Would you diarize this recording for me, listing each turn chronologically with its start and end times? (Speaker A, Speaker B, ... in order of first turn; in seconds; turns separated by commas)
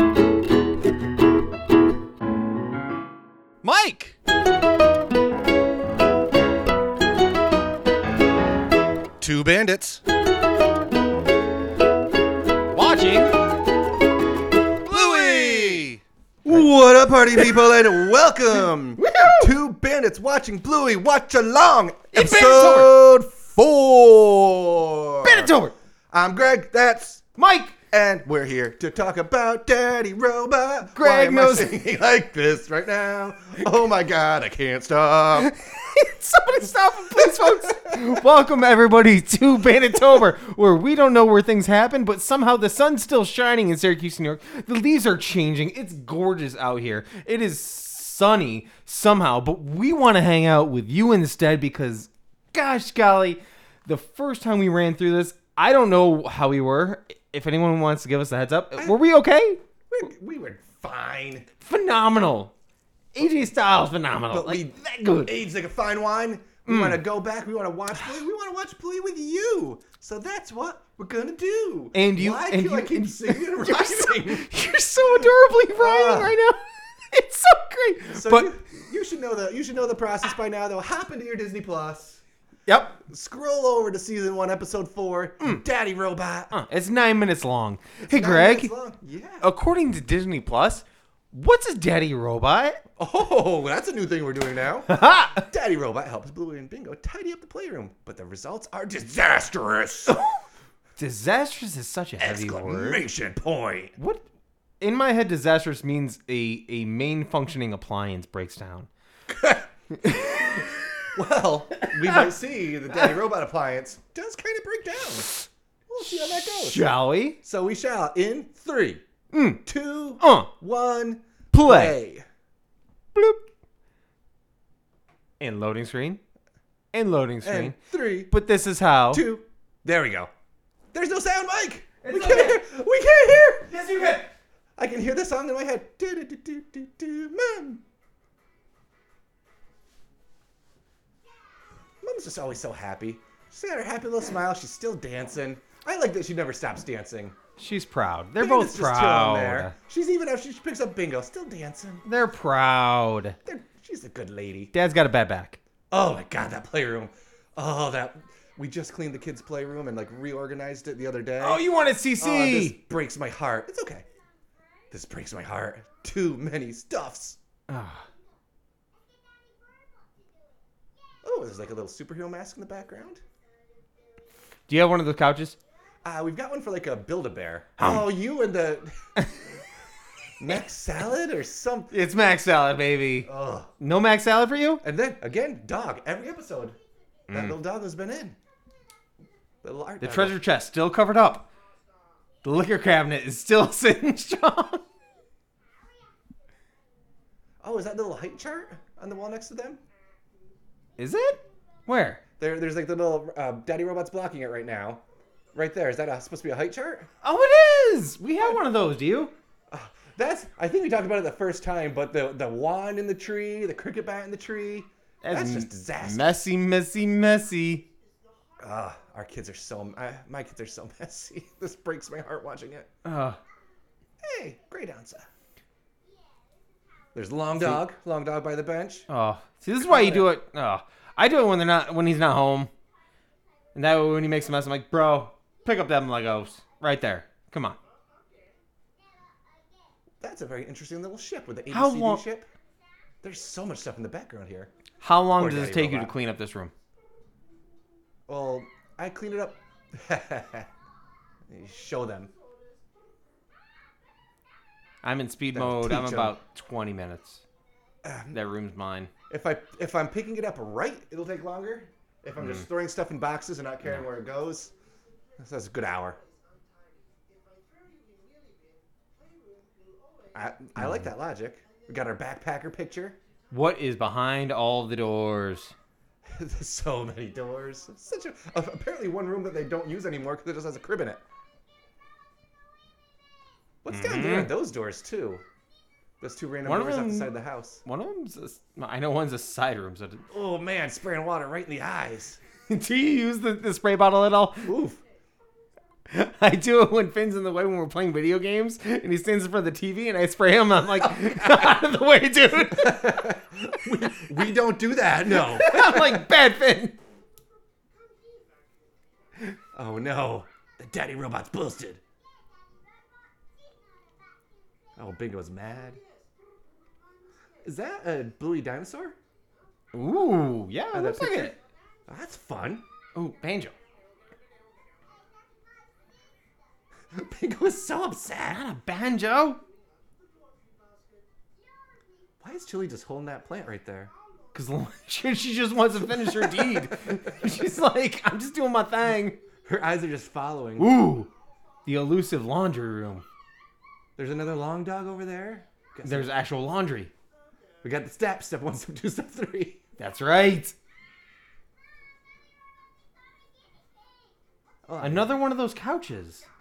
Speaker A: 3.6-4.2, Speaker B: 9.2-10.0, Speaker A: 12.7-13.4, Speaker B: 14.9-25.5, Speaker A: 14.9-15.9, Speaker A: 19.0-19.5, Speaker A: 22.1-23.0, Speaker A: 25.2-25.8, Speaker B: 26.1-27.2, Speaker A: 27.4-27.8, Speaker B: 27.9-35.5, Speaker A: 30.9-31.8, Speaker A: 35.4-59.6, Speaker B: 59.9-61.5, Speaker A: 61.6-62.5, Speaker A: 63.1-65.3, Speaker B: 64.3-74.5, Speaker A: 66.7-67.0, Speaker A: 71.9-78.5, Speaker B: 75.8-76.4, Speaker B: 78.1-82.2, Speaker A: 82.7-83.0, Speaker B: 83.1-86.5, Speaker A: 86.5-88.7, Speaker B: 88.1-89.5, Speaker A: 89.4-92.8, Speaker B: 93.0-100.2, Speaker A: 94.9-95.5, Speaker A: 101.0-103.0, Speaker B: 102.2-104.0, Speaker A: 104.0-104.2, Speaker A: 104.8-108.9, Speaker B: 109.3-109.7, Speaker A: 110.0-111.0, Speaker B: 111.2-115.3, Speaker A: 111.8-112.3, Speaker B: 115.9-116.9, Speaker A: 116.0-117.4, Speaker B: 117.4-119.0, Speaker A: 119.3-119.6, Speaker B: 119.7-122.2, Speaker A: 120.2-120.5, Speaker A: 121.5-122.0, Speaker A: 123.2-123.4, Speaker A: 125.4-126.2, Speaker A: 126.9-127.8, Speaker B: 127.4-128.3, Speaker A: 128.3-129.2, Speaker B: 129.1-130.3, Speaker B: 130.9-133.7, Speaker A: 132.0-132.6, Speaker A: 133.7-134.3, Speaker B: 134.8-137.8, Speaker B: 142.0-147.4, Speaker A: 147.6-149.8, Speaker B: 148.4-152.1, Speaker A: 152.1-153.4, Speaker B: 153.4-154.7, Speaker A: 154.7-155.6, Speaker B: 155.9-161.6, Speaker A: 161.4-162.8, Speaker B: 162.2-164.1, Speaker B: 164.9-167.4, Speaker A: 167.7-168.1, Speaker B: 171.2-173.2, Speaker A: 174.7-175.6, Speaker B: 176.1-178.9, Speaker A: 177.8-178.1, Speaker B: 180.4-181.9, Speaker A: 181.9-183.3, Speaker B: 183.2-183.7, Speaker A: 183.8-184.8, Speaker B: 184.8-186.8, Speaker A: 187.3-187.6, Speaker B: 187.3-188.4, Speaker B: 189.6-190.4, Speaker A: 190.0-191.5, Speaker A: 192.4-194.8, Speaker B: 197.6-199.8, Speaker A: 201.0-202.2, Speaker B: 202.4-205.0, Speaker B: 205.5-207.1, Speaker A: 207.2-209.3, Speaker B: 209.7-216.4, Speaker A: 215.2-217.8, Speaker B: 218.6-222.9, Speaker A: 223.0-223.4, Speaker B: 224.2-225.3, Speaker B: 227.2-229.1, Speaker A: 227.6-227.8, Speaker A: 229.1-232.7, Speaker B: 229.8-230.3, Speaker A: 233.8-237.8, Speaker B: 240.2-242.5, Speaker A: 241.7-242.2, Speaker B: 243.2-244.7, Speaker A: 245.0-246.7, Speaker B: 245.3-246.2, Speaker B: 248.3-250.7, Speaker B: 251.5-252.3, Speaker A: 255.0-257.4, Speaker B: 255.5-256.4, Speaker B: 258.0-258.4, Speaker A: 258.3-259.1, Speaker B: 259.3-264.7, Speaker A: 262.4-262.6, Speaker B: 265.4-266.2, Speaker B: 270.3-273.2, Speaker A: 270.8-271.1, Speaker A: 273.5-275.8, Speaker B: 276.2-281.2, Speaker B: 283.8-285.4, Speaker A: 283.9-284.6, Speaker B: 286.2-287.8, Speaker A: 286.6-287.3, Speaker A: 287.9-290.3, Speaker B: 290.3-292.4, Speaker A: 292.7-294.8, Speaker B: 294.6-295.0, Speaker A: 296.1-303.3, Speaker B: 302.7-306.3, Speaker A: 305.3-307.0, Speaker B: 309.7-312.0, Speaker B: 315.0-316.0, Speaker B: 317.6-319.2, Speaker A: 319.9-321.6, Speaker B: 320.9-321.6, Speaker B: 322.1-322.9, Speaker A: 323.1-323.8, Speaker B: 327.1-328.6, Speaker A: 328.4-329.6, Speaker B: 332.4-334.1, Speaker A: 334.5-339.4, Speaker B: 336.1-337.0, Speaker B: 339.6-341.0, Speaker A: 340.8-341.3, Speaker A: 341.9-343.2, Speaker B: 344.2-346.3, Speaker A: 346.1-347.1, Speaker B: 347.8-349.8, Speaker A: 350.0-350.8, Speaker B: 354.9-355.4, Speaker A: 355.0-356.4